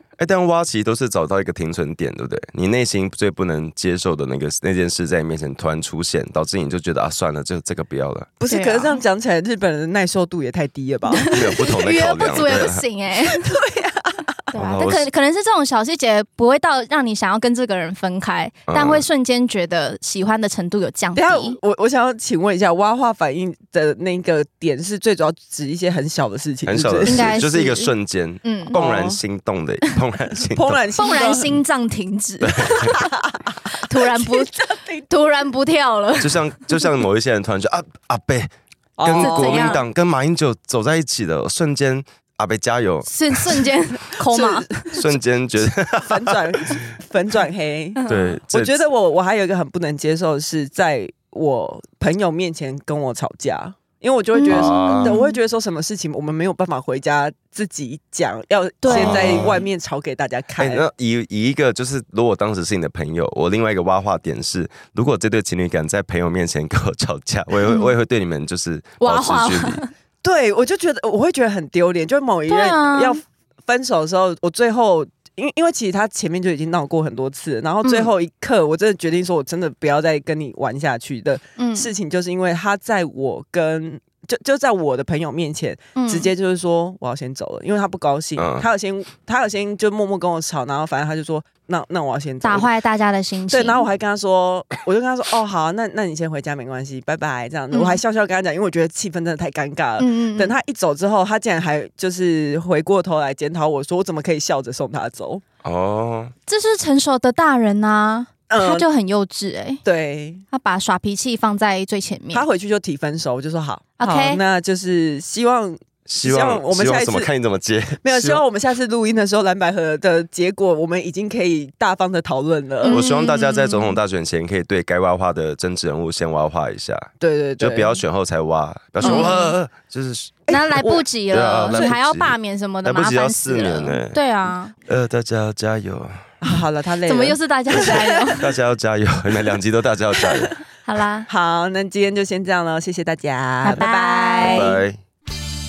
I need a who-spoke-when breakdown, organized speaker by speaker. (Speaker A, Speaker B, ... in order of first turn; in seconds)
Speaker A: 0.2-8.3, 11.3-12.8, 14.5-15.1, 18.7-19.0, 26.6-30.8, 32.4-32.9, 36.2-38.5, 39.0-43.6, 44.9-46.4, 48.0-48.8, 54.5-55.2, 58.9-59.6, 60.6-69.8, 88.4-88.7, 105.6-106.3, 116.1-118.4, 122.9-130.4, 131.3-134.2, 134.9-136.3, 137.7-140.5, 144.4-145.0
Speaker B: 8.4-11.4, 13.2-14.2, 21.1-27.4, 28.7-29.2, 30.5-31.6, 32.9-33.4, 34.1-35.1, 39.0-39.8, 44.2-48.0, 48.5-60.9, 70.2-92.7, 93.5-105.4, 108.5-108.9, 109.8-110.4, 112.3-117.3, 118.0-123.0, 127.2-128.0, 129.0-129.4, 130.5-131.9, 136.4-138.5, 141.3-144.8
Speaker C: 8.5-9.0, 11.1-13.6, 14.5-21.6, 27.0-28.7, 30.9-33.0, 33.7-36.6, 39.2-39.8, 43.0-44.9, 48.0-48.4, 54.3-55.4, 58.8-59.6, 69.0-69.9, 72.5-73.2, 77.8-78.1, 81.6-81.9, 86.0-86.3, 92.4-93.9, 97.7-98.0, 100.0-100.5, 106.5-109.8, 110.5-112.4, 114.0-114.4, 122.8-124.0, 129.0-129.5, 130.5-134.7, 137.1-138.5, 140.8-141.3, 143.6-144.8